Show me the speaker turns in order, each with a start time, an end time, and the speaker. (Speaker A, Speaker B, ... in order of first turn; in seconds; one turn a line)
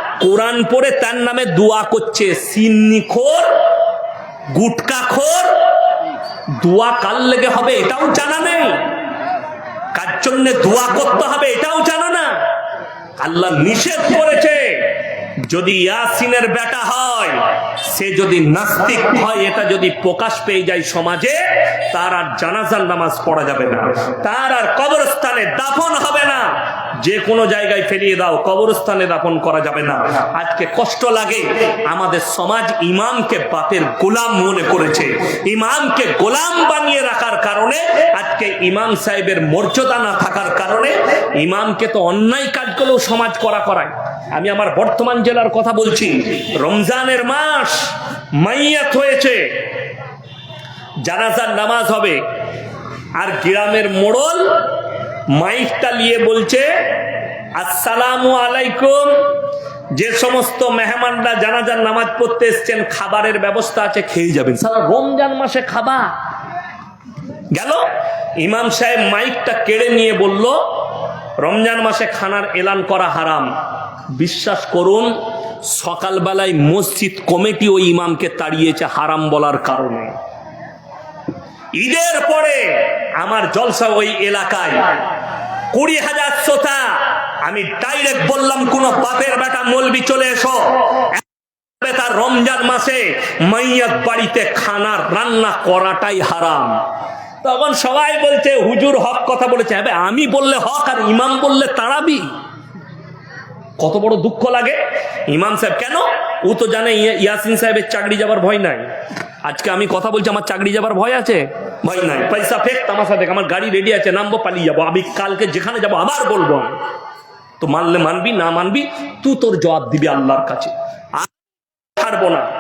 Speaker A: 0.2-3.5
Speaker A: 4.5-5.5
Speaker A: 6.6-8.9
Speaker A: 9.9-12.3
Speaker A: 13.2-49.6
Speaker A: 51.0-52.2
Speaker A: 53.2-54.6
Speaker A: 55.3-59.4
Speaker A: 59.9-66.1
Speaker A: 67.5-67.8
Speaker A: 68.4-70.6
Speaker A: 71.4-73.5
Speaker A: 74.1-80.1
Speaker A: 81.8-84.9
Speaker A: 85.7-91.2
Speaker A: 91.8-96.8
Speaker A: 97.4-102.3
Speaker A: 103.8-104.8
Speaker A: 105.3-108.9
Speaker A: 109.4-116.8
Speaker A: 117.6-121.3
Speaker A: 122.0-122.5